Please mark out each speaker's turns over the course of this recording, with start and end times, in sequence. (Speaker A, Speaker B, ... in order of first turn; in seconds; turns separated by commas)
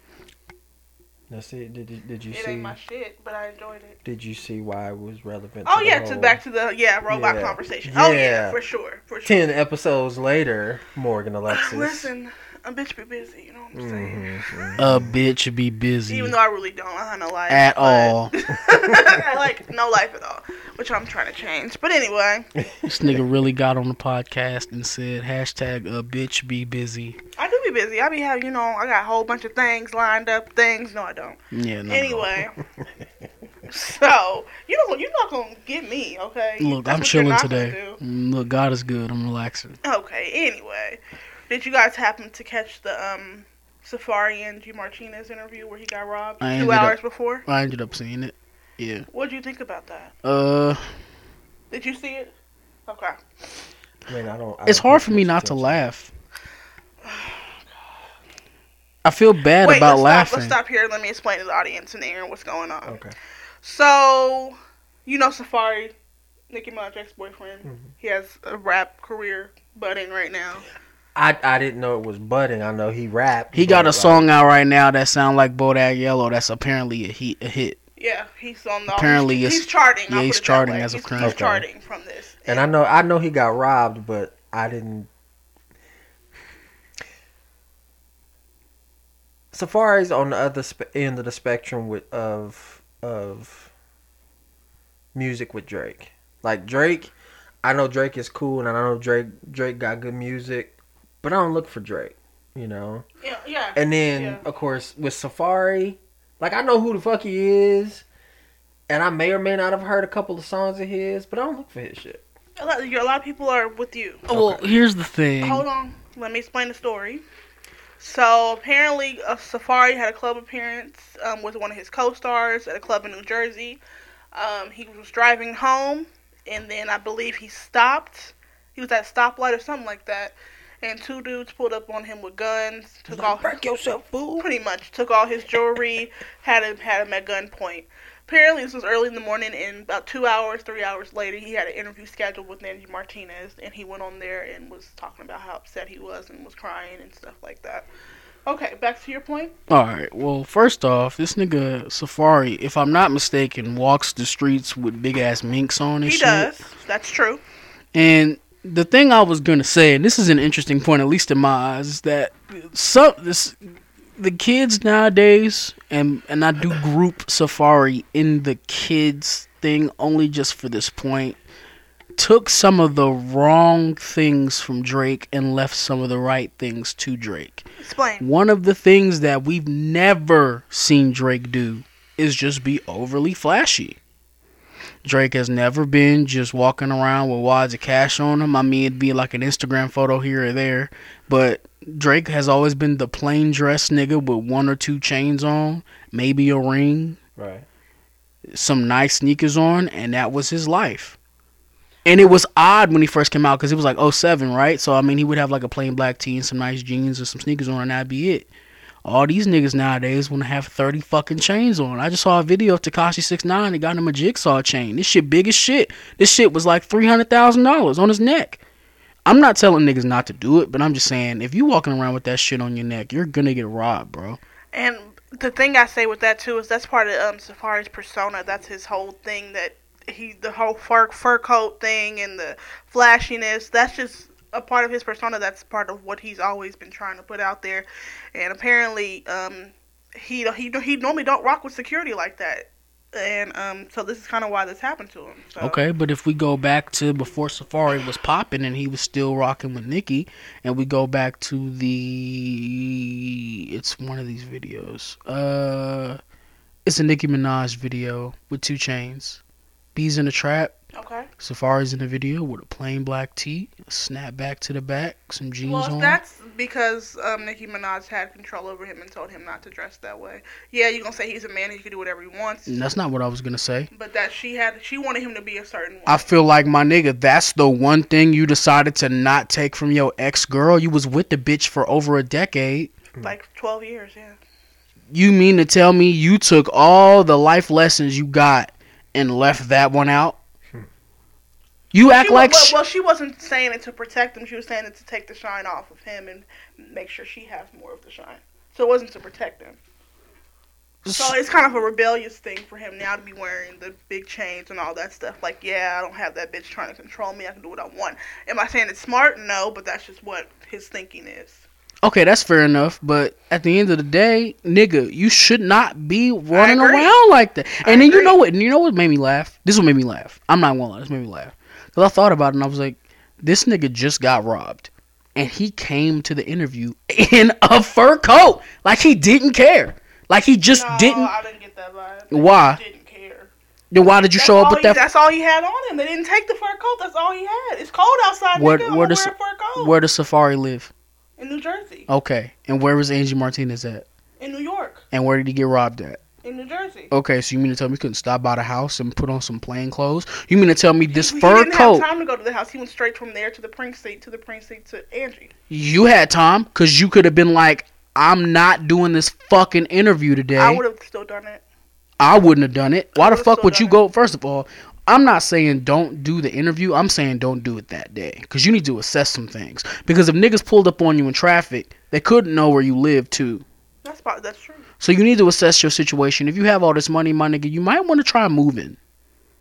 Speaker A: 1.3-2.8, Speaker B: 2.3-4.0, Speaker A: 4.0-6.4, Speaker B: 5.7-9.4, Speaker A: 7.1-8.6, Speaker A: 9.2-12.1, Speaker B: 11.5-14.8, Speaker A: 13.7-15.2, Speaker C: 14.8-16.4, Speaker B: 16.1-22.5, Speaker C: 17.5-18.3, Speaker A: 22.6-23.2, Speaker C: 22.9-27.2, Speaker B: 27.4-32.6, Speaker C: 31.5-32.3, Speaker B: 33.7-38.0, Speaker C: 36.6-39.8, Speaker B: 39.8-47.5, Speaker C: 46.4-49.1, Speaker B: 49.1-50.1, Speaker C: 50.2-50.8, Speaker B: 51.7-52.3, Speaker B: 52.9-53.2, Speaker A: 54.1-55.8, Speaker C: 54.7-56.1, Speaker B: 57.0-57.7, Speaker C: 59.0-60.6, Speaker B: 59.6-63.0, Speaker A: 62.9-63.1, Speaker B: 63.6-65.9, Speaker B: 66.5-70.7, Speaker A: 71.2-74.3, Speaker C: 73.5-77.8, Speaker B: 78.0-82.7, Speaker C: 78.9-81.4, Speaker A: 81.2-81.7, Speaker A: 82.5-85.1, Speaker A: 89.5-93.7, Speaker A: 95.2-97.1, Speaker A: 97.6-103.0, Speaker B: 103.2-104.4, Speaker A: 103.8-108.0, Speaker A: 108.9-112.2, Speaker B: 112.6-114.3, Speaker C: 114.3-115.7, Speaker A: 114.3-114.7, Speaker B: 115.4-117.2, Speaker B: 118.0-123.8, Speaker B: 124.3-133.6, Speaker A: 133.1-134.5, Speaker B: 134.4-147.9, Speaker B: 148.5-149.5, Speaker C: 149.7-156.5, Speaker B: 156.1-157.4, Speaker C: 157.9-163.6, Speaker C: 164.2-171.4, Speaker C: 172.2-177.7, Speaker B: 177.8-178.3, Speaker C: 178.2-184.0, Speaker C: 185.0-197.2, Speaker A: 197.4-197.7, Speaker C: 198.5-201.2, Speaker C: 202.1-208.5, Speaker C: 209.1-218.6, Speaker C: 219.3-224.4, Speaker B: 224.7-245.8, Speaker C: 245.6-256.2, Speaker C: 256.9-259.4, Speaker C: 259.9-260.7, Speaker B: 260.9-261.3, Speaker C: 261.4-266.2, Speaker B: 265.6-272.8, Speaker C: 272.7-273.9, Speaker B: 273.9-276.3, Speaker C: 276.1-282.9, Speaker B: 283.2-284.4, Speaker C: 285.1-290.4, Speaker C: 291.9-292.8, Speaker B: 292.1-299.8, Speaker C: 301.1-301.4, Speaker B: 301.1-311.6, Speaker C: 312.0-331.3, Speaker B: 316.5-317.1, Speaker B: 317.8-318.4, Speaker B: 330.7-333.5, Speaker C: 332.3-332.8, Speaker C: 333.9-335.0, Speaker B: 334.4-340.0, Speaker C: 338.6-340.9, Speaker B: 341.4-342.1, Speaker C: 342.1-344.1, Speaker B: 344.4-345.0, Speaker C: 345.1-346.2, Speaker B: 346.4-347.1, Speaker C: 347.1-352.1, Speaker B: 351.1-355.5, Speaker C: 355.7-360.8, Speaker B: 360.6-361.6, Speaker C: 362.2-373.6, Speaker B: 363.2-364.0, Speaker B: 374.0-374.9, Speaker C: 375.0-379.0